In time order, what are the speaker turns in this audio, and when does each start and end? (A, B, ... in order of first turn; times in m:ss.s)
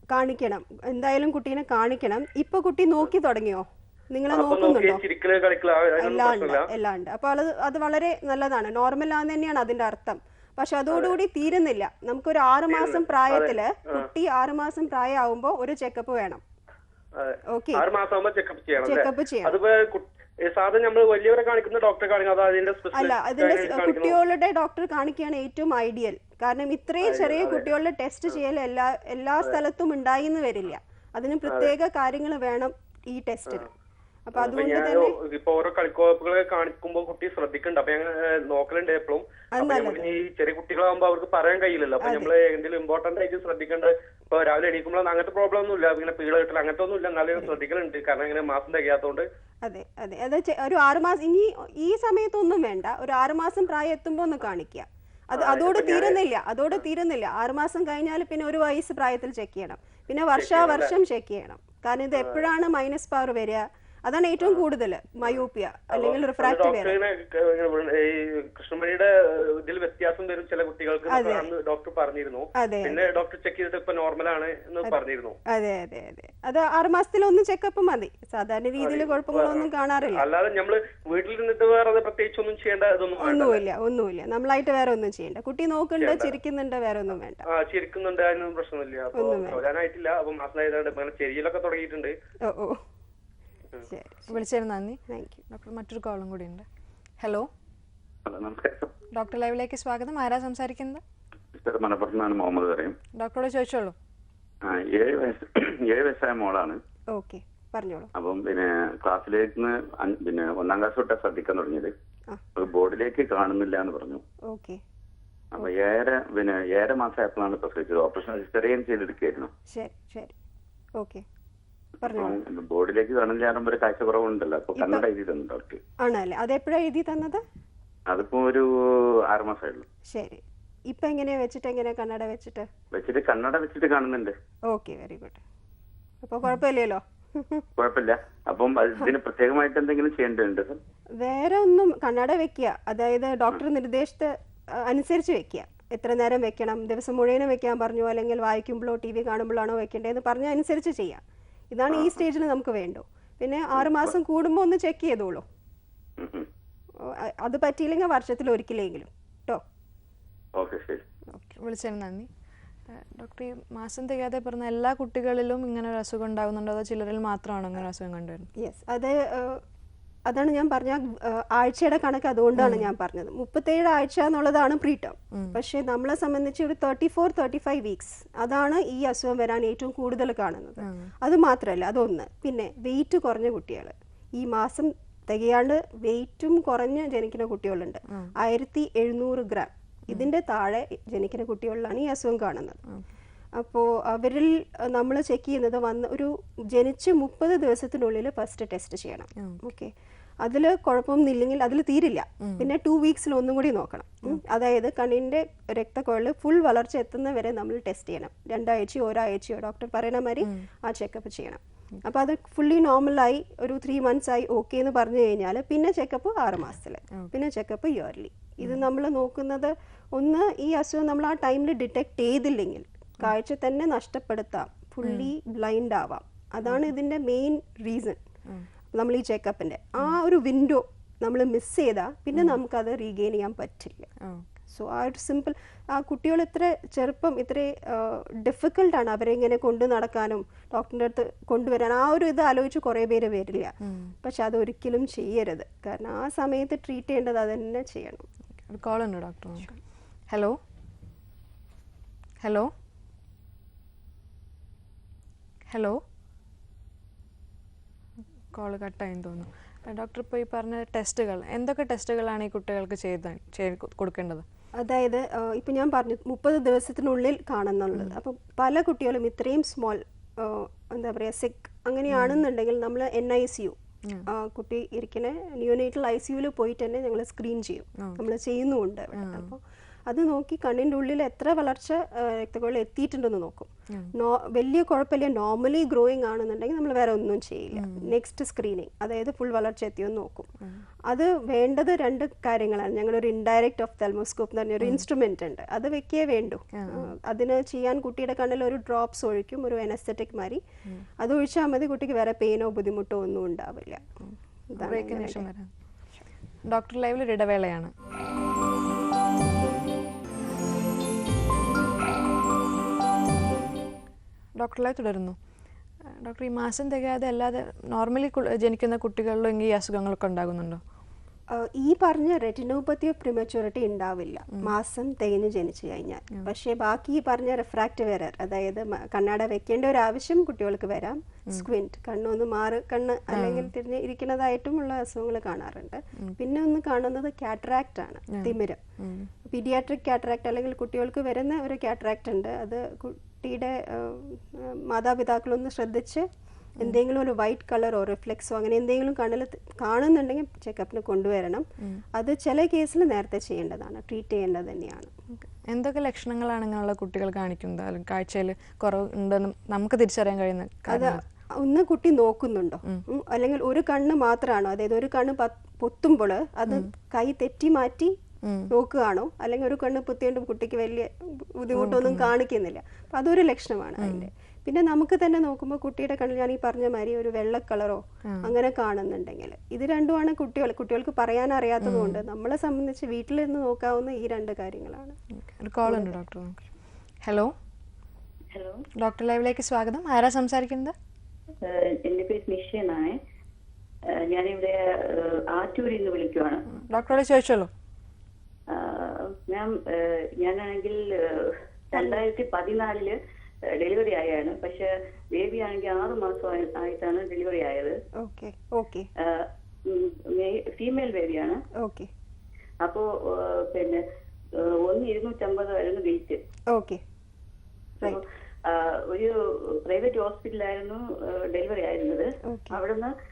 0:00.1-0:05.0 A
0:04.3-0:06.7 B
0:06.0-0:16.4 A
0:12.7-0:14.1 B
0:17.2-0:24.2 B
0:17.5-0:17.9 A
0:18.8-0:19.6 A
0:22.9-0:33.7 A
0:27.0-0:27.7 B
0:31.5-0:31.7 B
0:34.3-0:35.1 A
0:34.4-0:49.2 B
0:39.5-0:40.0 A
0:42.0-0:42.3 A
0:49.6-1:07.0 A
0:55.3-0:56.2 B
1:00.3-1:00.9 B
1:04.4-1:04.6 B
1:05.9-1:15.4 B
1:11.1-1:11.5 A
1:12.6-1:13.1 A
1:14.8-1:20.2 A
1:18.8-1:23.6 B
1:23.2-1:27.4 A
1:26.0-1:26.3 B
1:27.4-1:32.1 B
1:29.1-1:29.6 A
1:32.4-1:32.8 A
1:33.9-1:34.4 A
1:34.3-1:36.6 C
1:35.1-1:35.4 A
1:37.2-1:37.5 C
1:38.2-1:38.9 D
1:39.1-1:41.0 C
1:41.6-1:43.0 D
1:43.2-1:43.9 C
1:44.6-1:46.8 D
1:47.1-1:48.1 A
1:48.1-1:51.9 D
1:52.6-1:54.2 D
1:54.5-1:54.8 A
1:55.5-1:59.5 D
1:59.7-2:00.3 A
2:01.0-2:01.2 A
2:02.0-2:02.4 A
2:02.0-2:05.8 D
2:04.8-2:05.0 A
2:06.0-2:07.4 A
2:08.1-2:08.7 D
2:09.3-2:09.9 D
2:10.1-2:12.7 A
2:12.9-2:14.3 D
2:14.7-2:15.4 A
2:16.2-2:17.6 A
2:17.8-2:20.8 D
2:21.2-2:35.4 A
2:31.9-2:32.2 D
2:33.8-2:34.1 D
2:36.2-2:36.5 D
2:37.0-2:39.6 A
2:40.6-2:41.0 D
2:41.6-2:42.3 C
2:42.9-2:48.5 C
2:48.6-2:49.6 A
2:50.3-3:12.8 A
2:52.6-2:52.9 C
2:55.3-2:55.6 C
3:00.8-3:01.1 C
3:13.6-3:48.2 A
3:19.4-3:19.6 C
3:22.4-3:22.7 C
3:45.0-3:45.3 C
3:48.9-3:54.1 A
3:54.2-3:54.5 C
3:54.7-4:08.3 A
4:03.8-4:04.1 C
4:08.7-4:09.7 C
4:10.3-4:10.6 C
4:12.4-4:12.7 C
4:15.7-4:16.0 C
4:18.5-4:24.4 C
4:24.8-4:50.5 A
4:32.1-4:32.4 C
4:38.0-4:38.2 C
4:39.1-4:39.5 C
4:47.8-4:48.1 C
4:50.6-4:50.9 C
4:51.1-5:00.6 A
4:54.8-4:55.1 C
4:56.8-4:57.1 C
5:01.2-5:04.0 A
5:04.3-5:05.7 C
5:04.7-5:05.5 A
5:06.6-5:07.9 C
5:14.6-5:15.4 C
5:16.2-5:20.8 C
5:21.5-5:38.8 A
5:33.3-5:33.7 C
5:38.3-5:39.3 C
5:39.5-5:46.3 A
5:46.8-5:55.1 A
5:55.4-6:01.2 C
6:00.9-6:08.1 A
6:08.4-6:08.7 C
6:08.7-6:25.2 A
6:11.8-6:12.3 C
6:14.0-6:14.3 C
6:21.8-6:22.2 C
6:25.3-6:26.7 C
6:25.9-6:26.2 A
6:27.2-6:27.5 C
6:28.5-6:28.8 E
6:29.0-6:30.9 C
6:31.6-6:33.2 E
6:34.1-6:36.8 E
6:36.7-6:37.7 C
6:38.7-6:43.2 E
6:41.9-6:42.2 A
6:43.7-6:48.0 E
6:48.2-6:49.1 A
6:49.2-6:51.6 E
6:51.8-6:52.1 A
6:52.8-6:54.0 E
6:54.6-6:56.4 E
6:56.7-6:57.0 A
6:58.0-7:03.1 E
7:02.4-7:02.8 A